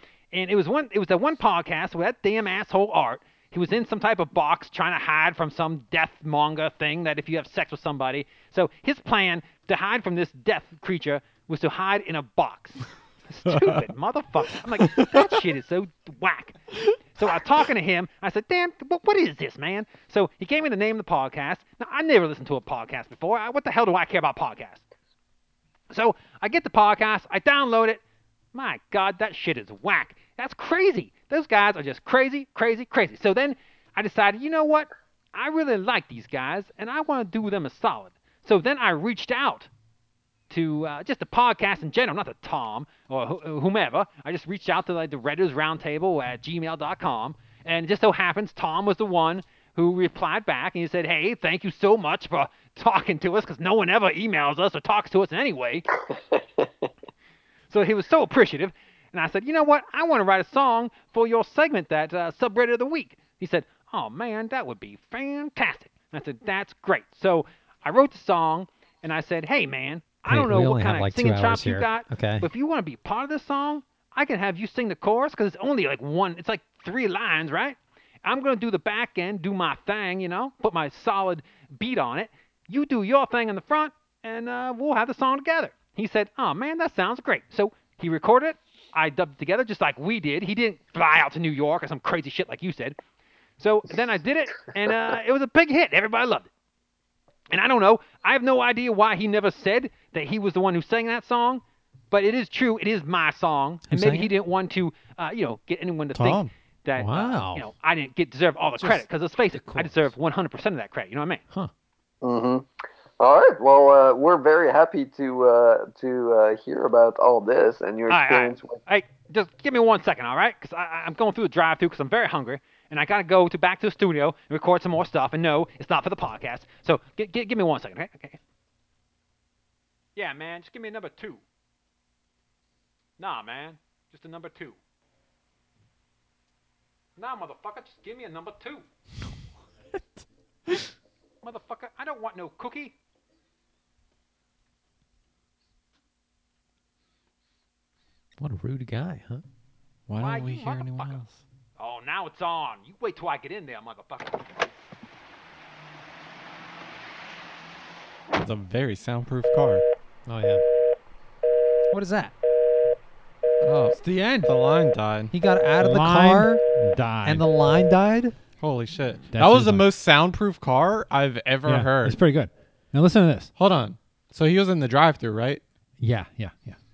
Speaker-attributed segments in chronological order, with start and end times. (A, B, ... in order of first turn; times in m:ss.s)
0:00.3-0:16.6 A
0:13.4-0:13.8 B
0:14.8-0:15.2 B
0:17.1-0:24.8 A
0:25.9-0:28.0 A
0:28.5-0:39.7 A
0:40.5-0:55.8 A
0:56.3-0:56.6 C
0:57.7-1:33.0 A
1:10.3-1:12.5 D
1:33.6-1:36.5 A
1:37.5-1:51.4 A
1:43.9-1:44.3 D
1:46.1-1:46.5 B
1:46.9-1:47.6 D
1:48.8-1:50.1 D
1:52.2-1:52.7 C
1:53.2-1:58.8 C
1:58.1-2:08.4 A
2:10.2-2:11.4 A
2:13.2-2:14.8 A
2:17.2-2:18.8 A
2:21.4-2:22.9 A
2:28.4-2:29.4 D
2:30.1-2:31.4 B
2:30.2-2:31.2 A
2:31.8-2:34.7 A
2:38.3-2:39.8 B
2:40.2-2:40.6 D
2:41.9-2:42.3 D
2:43.6-2:45.3 B
2:44.0-2:44.5 E
2:45.3-2:46.6 D
2:45.8-2:47.4 E
2:47.2-2:48.3 D
2:48.6-2:52.2 B
2:49.3-2:49.9 E
2:51.6-2:53.5 E
2:53.6-2:55.6 B
2:56.0-2:56.8 E